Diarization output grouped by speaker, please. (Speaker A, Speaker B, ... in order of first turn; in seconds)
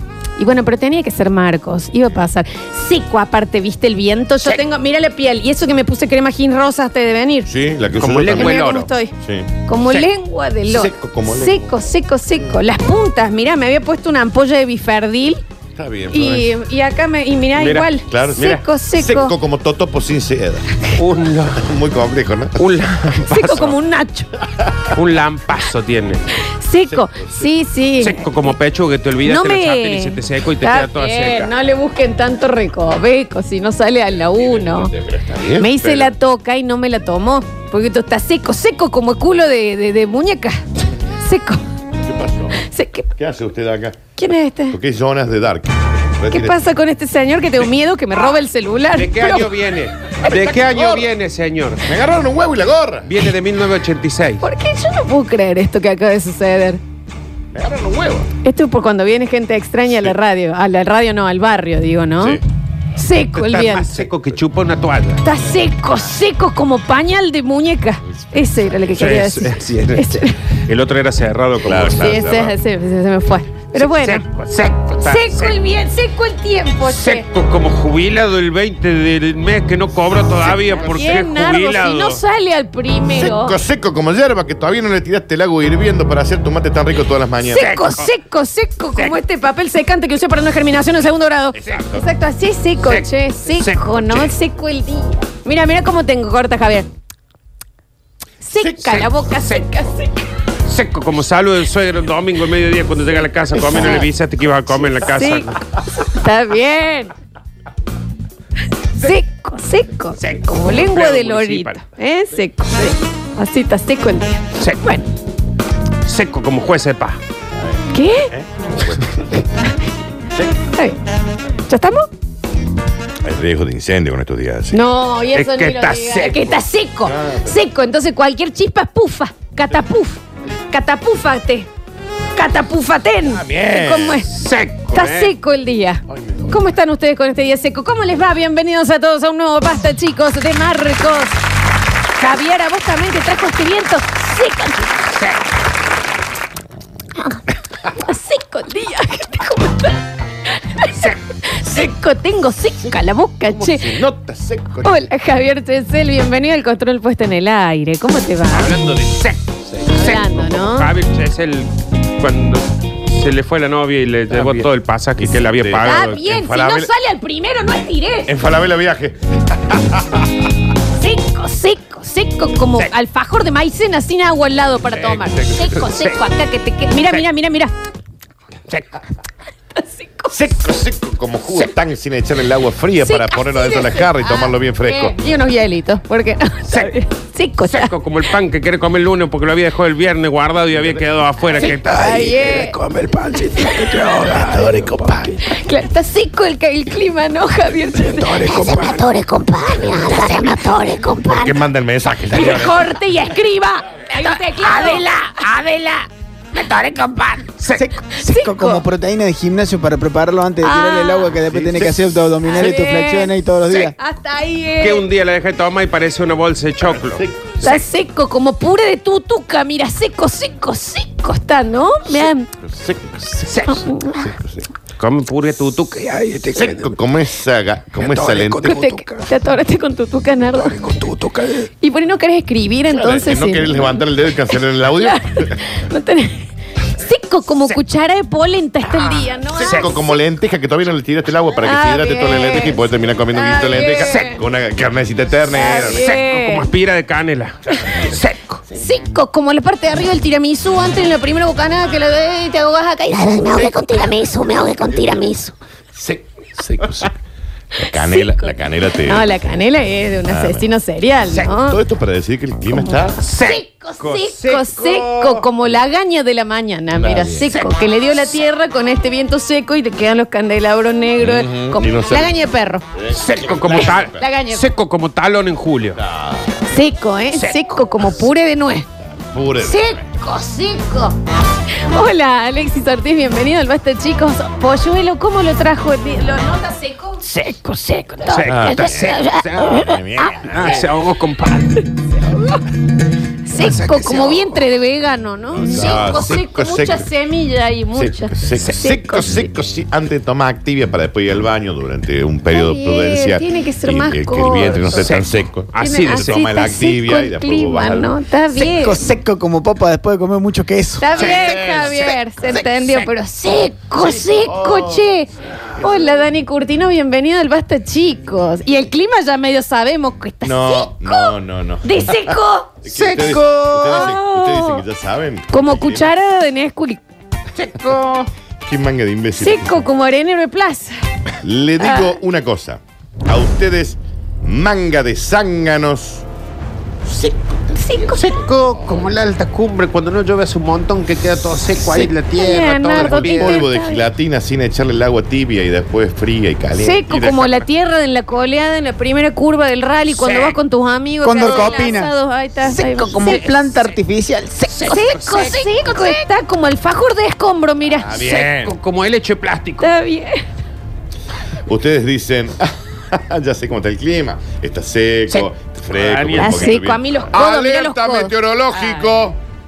Speaker A: 0.4-7.5, 8.3-9.1, 9.7-15.4, 16.1-19.4, 23.2-24.4, 26.4-28.2, 29.2-34.9, 35.5-41.6, 42.6-43.1, 44.2-44.8, 46.3-49.5, 54.4-56.8, 58.4-62.4, 63.0-64.1, 65.2-70.4, 72.0-74.2, 75.0-77.2, 80.5-83.6, 87.4-96.9, 98.4-100.1, 105.1-107.1, 108.9-115.1, 117.9-118.3, 120.7-121.0, 121.7-122.1, 124.7-131.7, 132.3-134.3, 134.9-141.4, 142.2-145.2, 147.2-154.0, 154.8-158.7, 159.9-160.9, 165.8-168.3, 170.9-177.7, 179.8-180.3, 183.0-187.9, 191.6-192.8, 193.5-194.0, 195.4-198.7, 199.8-200.7, 202.3-205.5, 208.1-208.8, 210.6-211.4, 212.4-215.1, 217.6-222.5, 223.7-224.3, 228.6-231.0, 231.8-234.0, 234.8-240.2, 241.6-244.4, 245.5-246.7, 248.7-253.8, 255.0-255.5, 257.9-258.5, 259.0-261.8, 263.3-272.9, 273.7-274.6, 276.7-278.9, 279.6-281.2, 281.8-290.0, 292.2-292.6, 293.4-299.4, 302.5-305.0, 305.8-309.1, 311.0-324.8, 325.5-327.0, 329.4-331.0, 331.8-332.1, 337.8-338.2, 342.3-344.1, 346.8-353.5, 354.9-358.2, 359.8-360.4, 366.4-368.3
Speaker B: 7.5-8.7, 9.2-9.5, 10.7-11.7, 15.8-16.5, 18.1-20.8, 21.6-22.6, 24.6-24.9, 26.9-27.5, 34.4-36.1, 42.0-42.6, 43.2-44.0, 44.7-46.6, 50.2-51.1, 51.9-53.1, 57.5-58.3, 71.6-72.6, 83.1-87.7, 91.5-92.0, 103.7-104.0, 117.6-119.4, 123.2-124.8, 127.1-127.6, 133.2-134.3, 136.1-136.5, 153.5-155.0, 164.3-166.9, 168.3-170.5, 174.9-175.8, 180.3-185.2, 194.2-195.4, 201.3-202.9, 211.4-212.3, 216.8-217.6, 222.1-223.5, 224.1-224.7, 226.5-228.8, 232.9-235.7, 239.6-246.1, 255.9-257.1, 257.8-259.5, 260.3-260.6, 261.5-263.2, 267.0-267.5, 271.2-272.4, 272.9-274.3, 275.9-276.5, 279.0-280.0, 288.4-290.9, 295.6-297.1, 297.9-308.2, 311.1-311.9, 314.0-315.1, 320.4-326.1, 328.6-329.8, 331.4-336.2, 337.1-339.0, 341.8-342.1, 342.8-347.6, 357.9-358.8, 361.7-369.4
Speaker C: 7.9-8.9, 17.6-18.6, 21.0-21.7, 22.6-23.8, 24.9-26.3, 28.0-31.5, 48.9-51.9, 53.0-54.4, 63.3-65.2, 68.9-72.1, 73.7-75.6, 76.8-82.2, 87.5-88.1, 92.8-94.3, 98.6-99.7, 100.7-105.6, 110.2-111.8, 114.6-114.8, 116.0-117.2, 125.3-126.6, 134.3-135.3, 150.9-151.2, 158.5-166.2, 175.6-176.2, 187.6-195.1, 198.0-199.1, 204.6-207.9, 214.8-217.8, 223.5-223.9, 225.0-226.9, 227.9-229.3, 230.7-231.7, 238.9-239.9, 245.7-248.6, 263.2-265.5, 273.1-276.0, 277.3-277.8, 287.3-291.9, 293.6-294.6, 295.7-296.3, 304.9-306.4, 311.1-313.1, 322.9-323.4, 327.6-328.3, 338.1-343.6, 350.1-350.6, 351.4-351.9, 353.2-354.0, 354.7-356.2, 358.1-359.9, 365.3-366.8
Speaker D: 198.4-201.5, 253.2-255.5
Speaker E: 207.7-213.9, 308.5-311.1, 351.2-355.0